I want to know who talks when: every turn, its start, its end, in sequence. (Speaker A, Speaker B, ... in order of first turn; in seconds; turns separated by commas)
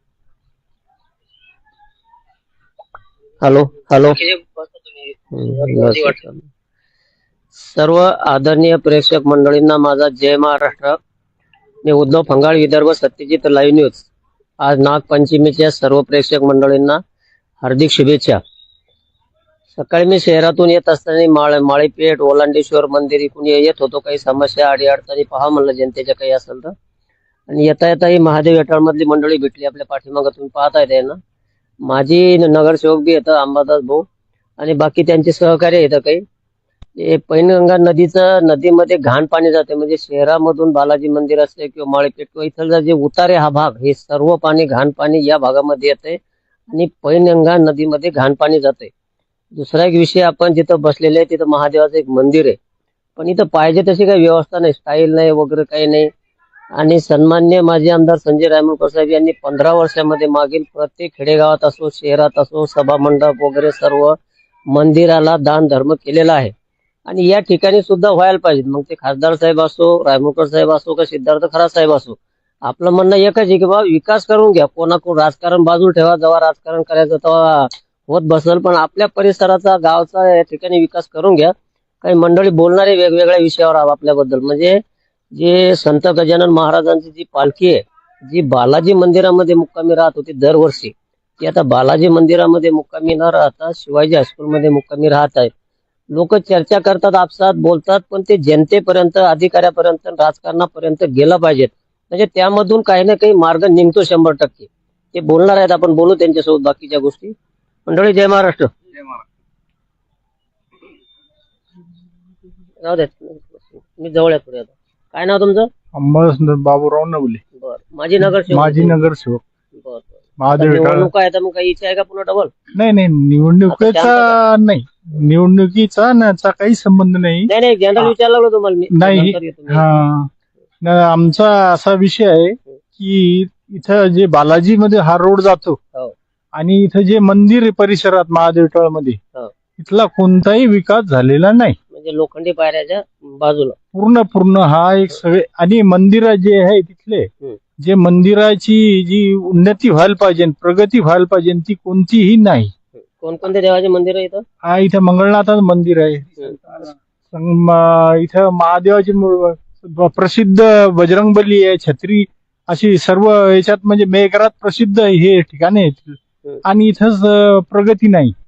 Speaker A: 3.4-4.4, Speaker A: 5.3-6.4, Speaker A: 7.5-10.9, Speaker A: 11.8-14.1, Speaker A: 14.6-17.0, Speaker A: 17.6-18.4, Speaker A: 19.7-26.7, Speaker A: 27.5-31.2, Speaker A: 31.9-34.0, Speaker A: 34.6-36.2, Speaker A: 37.0-46.2, Speaker A: 46.7-48.9, Speaker A: 49.5-52.6, Speaker A: 53.2-56.1, Speaker A: 56.8-64.2, Speaker A: 64.7-66.5, Speaker A: 67.1-84.8, Speaker A: 85.3-95.5, Speaker A: 96.1-107.3, Speaker A: 107.8-108.7, Speaker A: 112.8-115.7, Speaker B: 116.0-117.4, Speaker A: 117.6-119.0, Speaker B: 118.2-119.4, Speaker A: 119.7-122.5, Speaker B: 120.4-121.1, Speaker B: 122.7-128.1, Speaker A: 123.7-124.4, Speaker A: 127.5-129.8, Speaker B: 128.9-130.3, Speaker B: 130.8-135.8, Speaker B: 136.5-139.2, Speaker B: 139.8-141.8, Speaker A: 141.9-143.8, Speaker B: 143.9-147.3, Speaker B: 147.8-152.7, Speaker A: 153.2-154.4, Speaker B: 154.6-168.3